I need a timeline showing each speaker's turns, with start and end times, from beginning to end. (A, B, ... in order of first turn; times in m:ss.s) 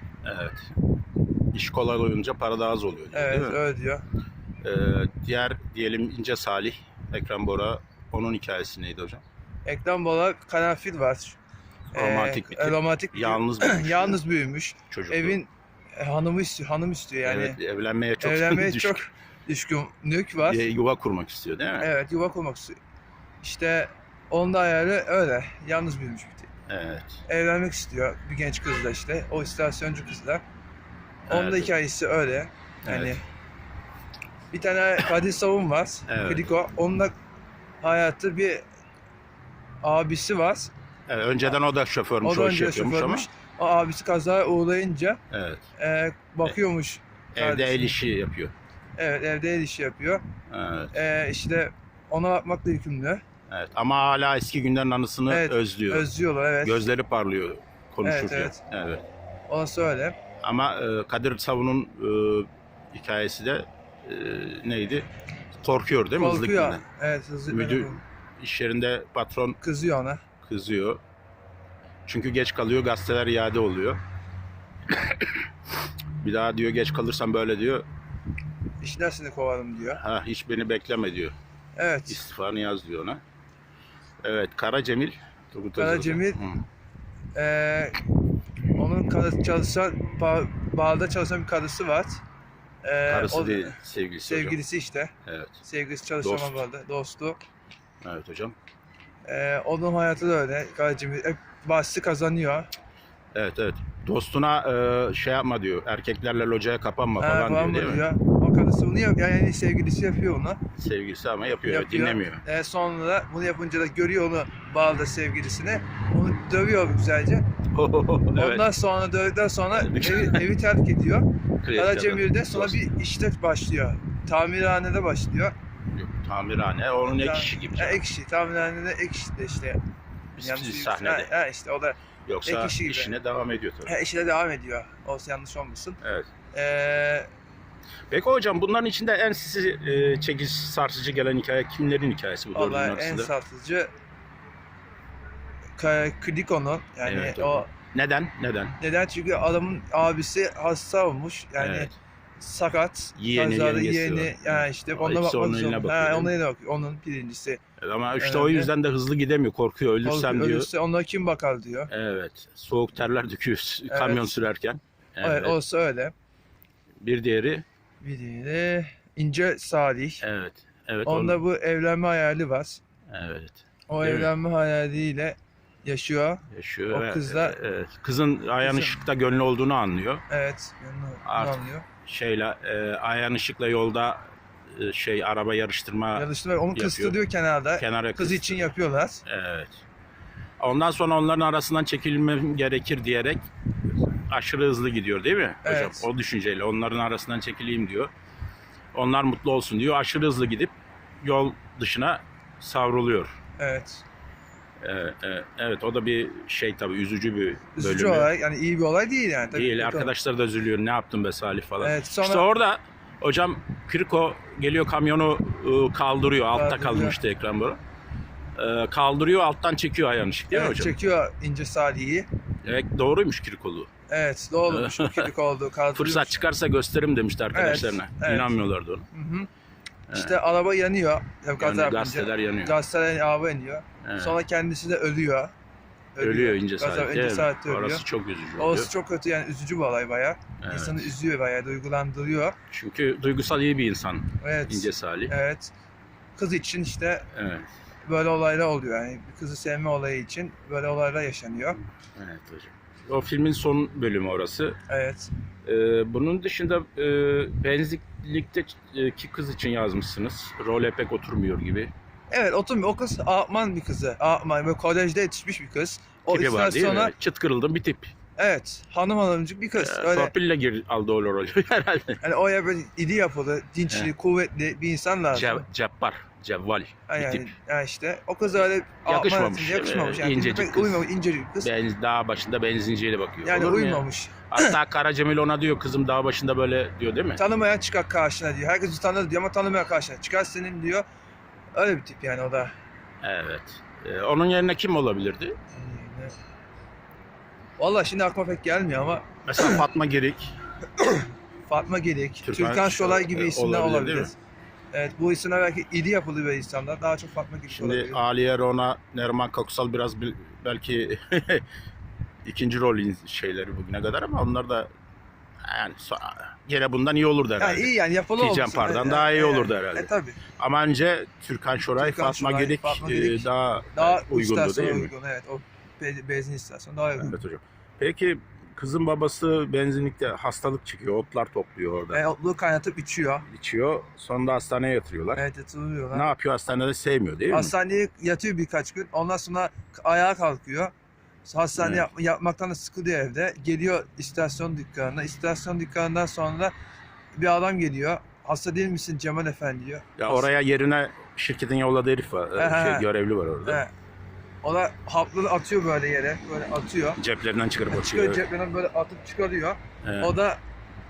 0:00.2-0:00.7 A
0:01.5-0:03.6 A
0:03.1-0:04.0 B
0:04.6-0:09.2 A
0:09.6-0:11.4 B
0:11.9-0:17.6 B
0:11.9-0:14.2 A
0:14.9-0:15.4 A
0:17.2-0:19.0 A
0:18.2-0:20.6 B
0:20.4-0:21.9 A
0:21.8-0:22.8 B
0:23.4-0:26.5 B
0:26.7-0:27.2 A
0:27.3-0:30.4 B
0:31.3-0:31.7 A
0:31.3-0:33.2 B
0:32.8-0:33.2 A
0:34.5-0:37.1 B
0:36.1-0:36.5 A
0:37.8-0:38.6 B
0:39.8-0:40.7 B
0:41.1-0:43.3 A
0:42.2-0:45.2 B
0:45.3-0:45.6 A
0:45.8-0:47.9 B
0:47.3-0:48.5 A
0:49.0-0:50.2 B
0:50.5-0:50.9 A
0:50.9-0:53.2 B
0:53.5-0:56.1 A
0:55.3-0:56.8 B
0:56.6-0:59.0 A
0:58.0-0:58.6 B
0:59.5-1:00.2 B
1:00.4-1:05.1 A
1:05.6-1:06.8 A
1:06.2-1:08.0 B
1:07.5-1:09.6 A
1:09.6-1:10.2 B
1:10.4-1:11.0 A
1:12.0-1:14.0 A
1:14.9-1:15.4 A
1:16.2-1:17.8 A
1:18.8-1:20.0 B
1:19.9-1:21.3 A
1:21.8-1:22.2 B
1:22.1-1:23.2 A
1:24.2-1:26.6 A
1:25.8-1:26.4 B
1:27.3-1:28.0 B
1:28.7-1:32.2 B
1:32.8-1:35.1 B
1:33.1-1:34.6 A
1:35.2-1:35.6 A
1:35.6-1:37.4 B
1:36.2-1:36.6 A
1:38.0-1:38.6 A
1:39.2-1:42.7 B
1:43.3-1:48.0 A
1:47.2-1:50.6 B
1:50.8-1:52.4 A
1:51.6-1:57.4 B
1:57.7-1:58.6 A
1:58.4-2:05.5 B
1:59.7-2:00.4 A
2:01.6-2:02.8 A
2:05.9-2:08.0 A
2:07.0-2:09.8 B
2:10.4-2:11.3 A
2:10.4-2:13.2 B
2:12.3-2:14.0 A
2:13.8-2:16.0 B
2:16.0-2:16.3 A
2:16.5-2:17.3 B
2:18.1-2:23.3 A
2:22.5-2:23.9 B
2:25.8-2:27.7 B
2:27.0-2:28.8 A
2:28.8-2:37.6 B
2:31.6-2:31.9 A
2:33.2-2:36.3 A
2:37.8-2:40.7 A
2:38.2-2:38.7 B
2:40.0-2:41.9 B
2:41.9-2:45.6 A
2:43.9-2:44.4 B
2:45.2-2:46.1 B
2:47.0-2:47.6 A
2:48.0-2:50.2 B
2:50.2-2:51.4 A
2:51.0-2:52.8 B
2:53.1-2:54.3 A
2:53.9-2:57.6 B
2:56.5-3:00.2 A
2:58.6-2:59.0 B
3:00.3-3:01.8 B
3:01.2-3:07.2 A
3:06.1-3:09.2 B
3:07.8-3:08.7 A
3:09.2-3:09.8 A
3:10.6-3:13.5 A
3:14.1-3:18.1 A
3:15.6-3:16.1 B
3:18.9-3:23.3 A
3:23.6-3:24.0 B
3:24.8-3:28.3 A
3:27.8-3:30.1 B
3:29.5-3:37.8 A
3:31.8-3:32.4 B
3:36.5-3:37.2 B
3:38.6-3:40.9 A
3:40.5-3:42.3 B
3:42.6-3:43.9 A
3:44.1-3:46.4 B
3:44.7-3:45.3 A
3:45.9-3:49.1 A
3:47.5-3:48.6 B
3:49.1-3:49.5 B
3:50.1-3:50.4 A
3:50.1-3:55.5 B
3:51.6-3:52.7 A
3:54.0-3:54.3 A
3:56.2-3:58.0 B
3:56.2-3:58.9 A
3:58.6-4:02.5 B
4:00.6-4:01.1 A
4:02.7-4:05.3 A
4:04.4-4:05.7 B
4:06.4-4:07.3 B
4:07.3-4:07.7 A
4:08.0-4:11.8 B
4:12.2-4:14.8 A
4:14.9-4:15.3 B
4:15.6-4:21.9 A
4:22.3-4:27.1 B
4:26.3-4:28.1 A
4:28.4-4:30.3 B
4:29.7-4:32.2 A
4:32.2-4:35.6 B
4:35.3-4:37.4 A
4:37.1-4:41.7 B
4:39.0-4:41.0 A
4:41.6-4:47.4 A
4:43.4-4:44.8 B
4:47.4-4:51.0 B
4:51.7-4:52.7 B
4:53.2-4:55.6 A
4:55.7-4:56.3 B
4:57.8-4:59.8 B
4:59.4-5:00.5 A
5:01.0-5:04.3 B
5:02.4-5:04.3 A
5:04.9-5:08.2 B
5:07.7-5:11.6 A
5:12.4-5:14.9 A
5:15.6-5:25.1 A
5:17.6-5:20.4 B
5:21.9-5:27.3 B
5:27.2-5:32.2 A
5:32.1-5:33.4 B
5:33.5-5:35.4 A
5:35.4-5:36.3 B
5:36.1-5:37.7 A
5:37.5-5:40.9 B
5:41.4-5:46.7 B
5:41.8-5:42.1 A
5:47.3-5:50.5 B
5:50.2-5:53.8 A
5:52.6-5:53.1 B
5:53.6-5:53.9 B
5:54.6-5:57.2 B
5:57.2-5:58.4 A
5:57.9-6:00.6 B
6:00.0-6:00.3 A